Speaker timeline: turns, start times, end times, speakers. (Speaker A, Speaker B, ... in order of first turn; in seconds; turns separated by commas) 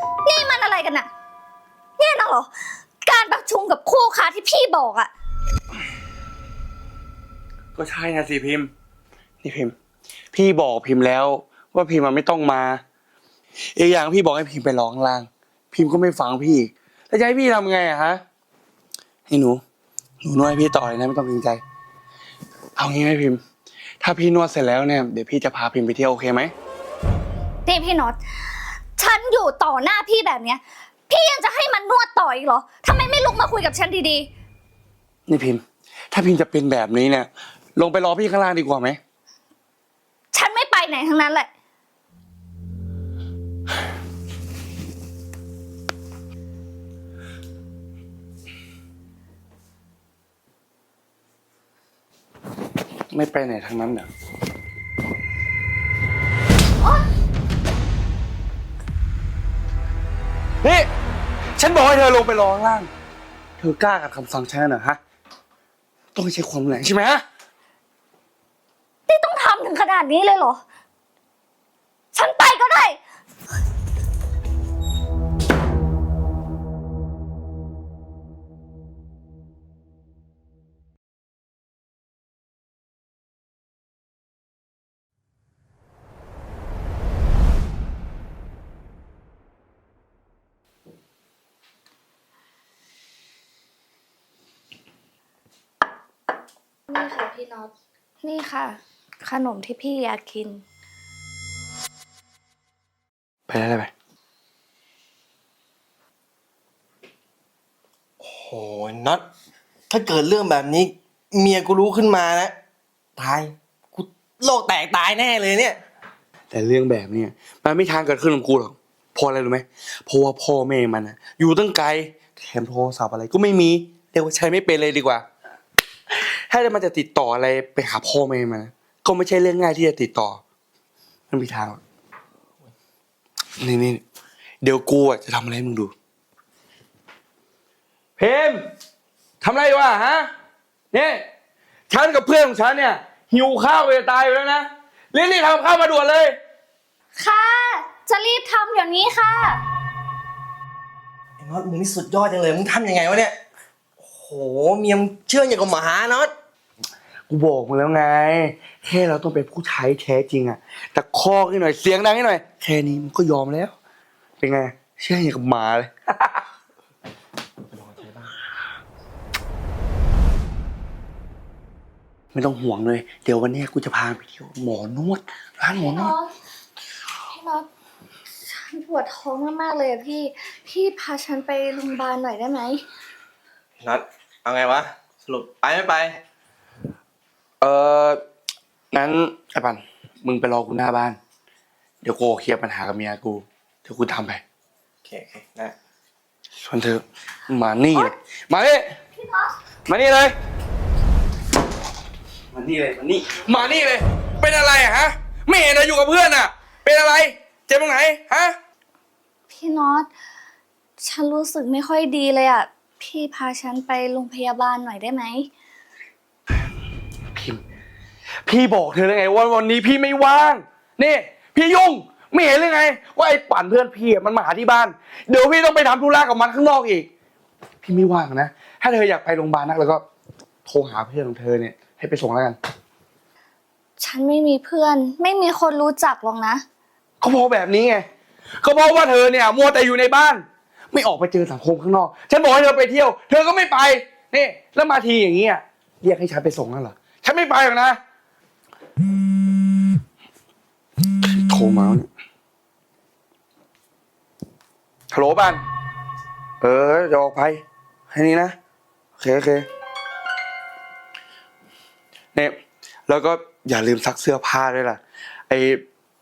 Speaker A: 0.2-1.1, Speaker A: 2.0-2.5, Speaker A: 3.0-5.1, Speaker B: 7.7-8.7, Speaker B: 9.4-9.7, Speaker B: 10.3-12.8, Speaker B: 13.7-18.2, Speaker B: 19.3-19.6, Speaker B: 20.2-21.6, Speaker B: 22.8-23.4, Speaker B: 24.0-26.5, Speaker A: 27.6-34.3, Speaker B: 35.3-39.0, Speaker A: 40.3-41.5, Speaker B: 53.1-54.1, Speaker B: 60.6-60.9, Speaker B: 61.6-62.9, Speaker B: 63.6-65.0, Speaker B: 66.1-67.2, Speaker A: 69.1-70.6, Speaker A: 72.1-73.0, Speaker A: 96.9-100.6, Speaker B: 103.5-103.9, Speaker C: 108.2-109.2, Speaker C: 109.9-112.5, Speaker C: 113.2-115.8, Speaker B: 116.5-125.2, Speaker B: 126.1-130.4, Speaker B: 131.3-131.8, Speaker B: 133.6-134.0, Speaker B: 134.6-135.9, Speaker B: 138.2-138.6, Speaker B: 139.4-140.3, Speaker B: 140.9-141.2, Speaker B: 141.9-146.3, Speaker A: 147.2-149.6, Speaker C: 151.4-153.3, Speaker C: 154.0-156.3, Speaker B: 157.3-163.7, Speaker B: 164.4-166.4, Speaker C: 167.7-168.3, Speaker B: 172.3-176.1, Speaker A: 175.7-176.3, Speaker A: 177.3-177.7, Speaker A: 178.4-182.8, Speaker C: 183.8-186.2, Speaker B: 187.6-188.2, Speaker B: 188.9-191.2, Speaker B: 192.0-194.4, Speaker C: 195.0-195.7, Speaker B: 196.6-198.9, Speaker A: 199.2-199.5, Speaker B: 199.9-200.3, Speaker B: 202.5-208.5, Speaker A: 209.5-210.1, Speaker A: 211.0-215.5, Speaker B: 217.3-217.6, Speaker B: 218.4-227.1, Speaker B: 227.8-230.0, Speaker B: 230.7-232.6, Speaker A: 234.0-236.6, Speaker B: 237.2-238.0, Speaker B: 238.6-248.0, Speaker B: 251.2-252.1, Speaker B: 255.1-255.6, Speaker B: 256.6-258.5, Speaker B: 259.2-259.6, Speaker B: 263.1-265.8